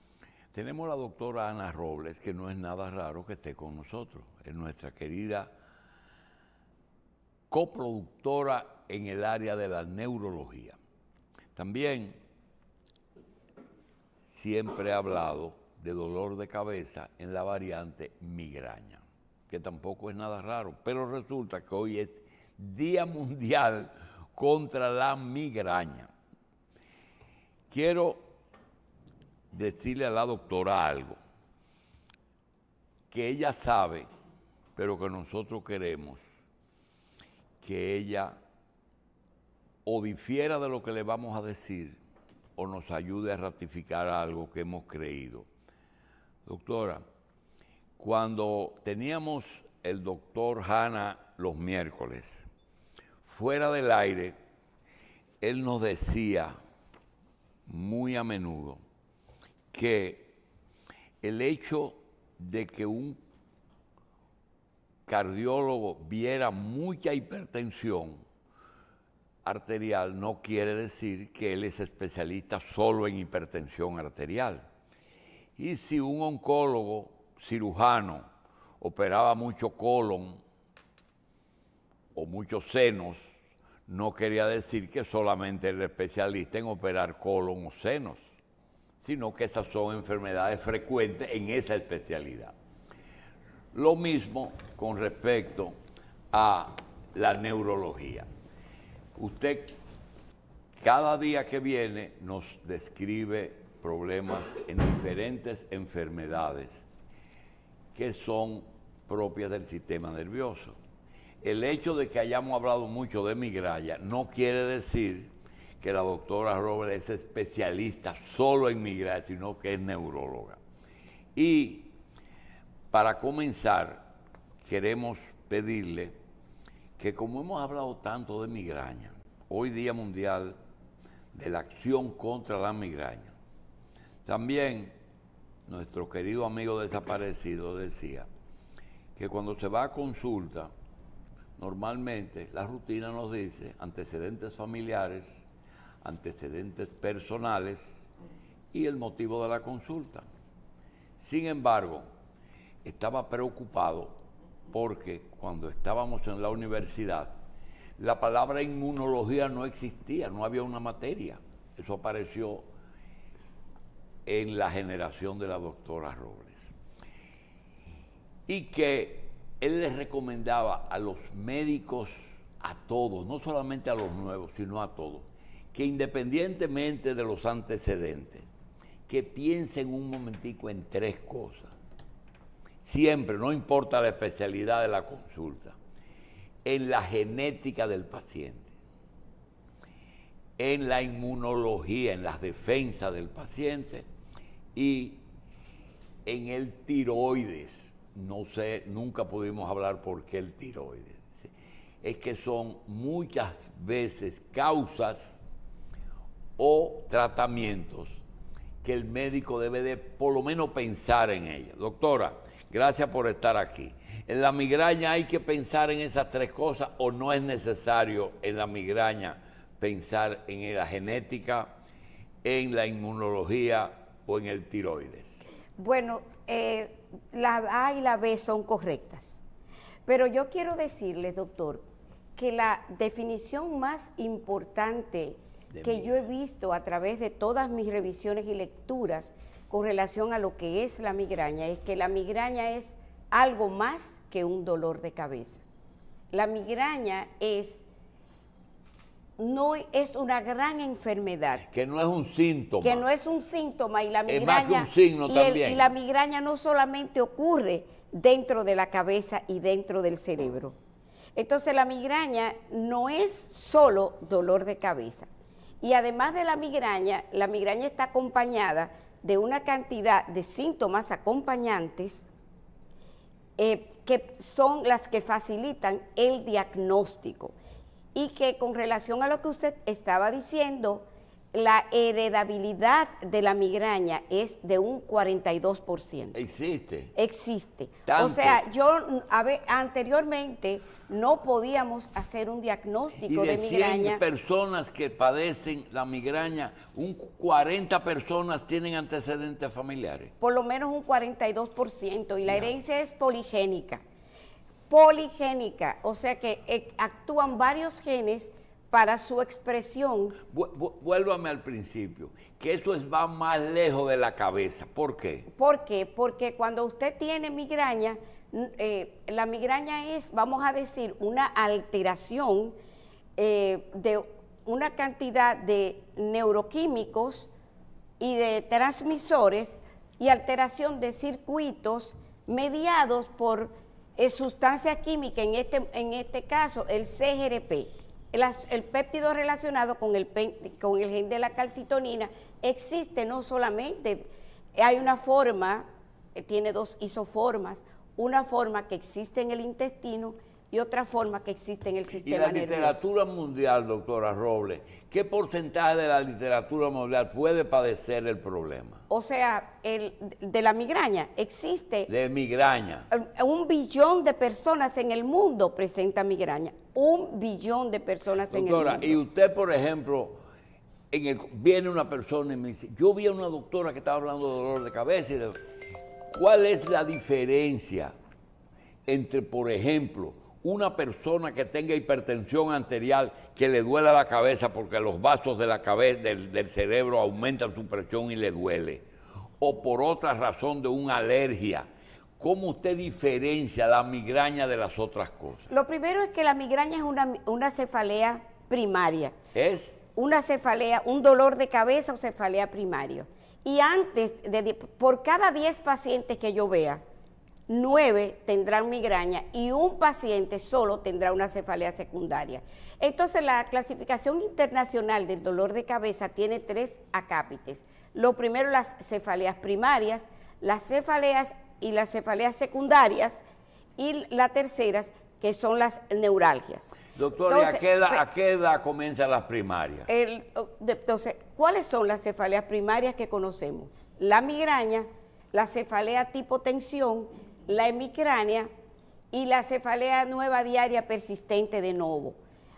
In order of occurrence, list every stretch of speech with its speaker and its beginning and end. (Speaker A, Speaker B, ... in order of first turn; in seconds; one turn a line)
Speaker A: 0.5-5.5
Speaker A: 7.5-10.8
Speaker A: 11.5-12.2
Speaker A: 14.3-26.1
Speaker A: 27.7-28.2
Speaker A: 29.5-31.2
Speaker A: 33.1-34.1
Speaker A: 34.8-36.2
Speaker A: 37.6-38.4
Speaker A: 39.8-42.0
Speaker A: 42.6-45.5
Speaker A: 46.5-47.0
Speaker A: 48.0-52.4
Speaker A: 53.2-54.4
Speaker A: 55.4-56.5
Speaker A: 57.7-58.8
Speaker A: 59.7-60.3
Speaker A: 61.2-63.2
Speaker A: 65.1-68.2
Speaker A: 69.4-74.6
Speaker A: 75.6-78.2
Speaker A: 78.8-80.4
Speaker A: 82.1-83.2
Speaker A: 83.9-88.2
Speaker A: 89.0-92.5
Speaker A: 93.7-95.8
Speaker A: 96.3-98.3
Speaker A: 99.2-99.8
Speaker A: 100.8-106.8
Speaker A: 107.9-110.8
Speaker A: 111.4-120.6
Speaker A: 121.4-121.9
Speaker A: 122.9-124.1
Speaker A: 124.6-126.2
Speaker A: 127.0-130.6
Speaker A: 131.3-133.3
Speaker A: 134.2-134.9
Speaker A: 135.7-138.3
Speaker A: 139.2-140.7
Speaker A: 141.6-145.4
Speaker A: 146.0-148.0
Speaker A: 148.7-150.2
Speaker A: 151.2-152.1
Speaker A: 152.8-154.2
Speaker A: 154.7-157.3
Speaker A: 158.0-162.7
Speaker A: 164.2-166.7
Speaker A: 168.5-178.5
Speaker A: 179.1-181.7
Speaker A: 182.8-185.8
Speaker A: 186.7-188.7
Speaker A: 190.6-194.1
Speaker A: 194.8-195.2
Speaker A: 196.2-201.5
Speaker A: 202.0-205.4
Speaker A: 206.6-208.1
Speaker A: 208.8-221.7
Speaker A: 222.4-225.4
Speaker B: 225.8-229.4
Speaker B: 230.1-231.8
Speaker B: 232.4-245.6
Speaker A: 235.7-236.1
Speaker B: 246.3-247.8
Speaker B: 249.4-251.6
Speaker A: 251.7-253.0
Speaker B: 252.8-260.8
Speaker A: 254.3-255.9
Speaker B: 261.4-265.3
Speaker B: 265.8-272.2
Speaker B: 273.6-277.5
Speaker B: 278.1-286.4
Speaker A: 286.4-287.1
Speaker B: 287.1-294.2
Speaker A: 288.1-288.6
Speaker A: 293.2-300.3
Speaker B: 300.4-304.0
Speaker B: 304.9-310.4
Speaker A: 310.5-315.5
Speaker B: 315.5-322.8
Speaker B: 323.4-327.5
Speaker B: 328.2-353.0
Speaker A: 352.3-359.0
Speaker B: 359.1-362.1
Speaker A: 362.1-363.1
Speaker B: 363.1-369.2
Speaker A: 368.5-370.4
Speaker A: 371.1-375.6
Speaker A: 376.3-378.1
Speaker A: 379.1-389.1
Speaker A: 389.6-391.9
Speaker A: 392.4-395.7
Speaker B: 395.7-399.4
Speaker A: 399.5-400.0
Speaker B: 400.2-407.0
Speaker B: 407.7-423.4
Speaker B: 424.0-427.0
Speaker A: 427.1-430.1
Speaker B: 427.5-428.2
Speaker B: 430.1-438.7
Speaker B: 439.3-442.4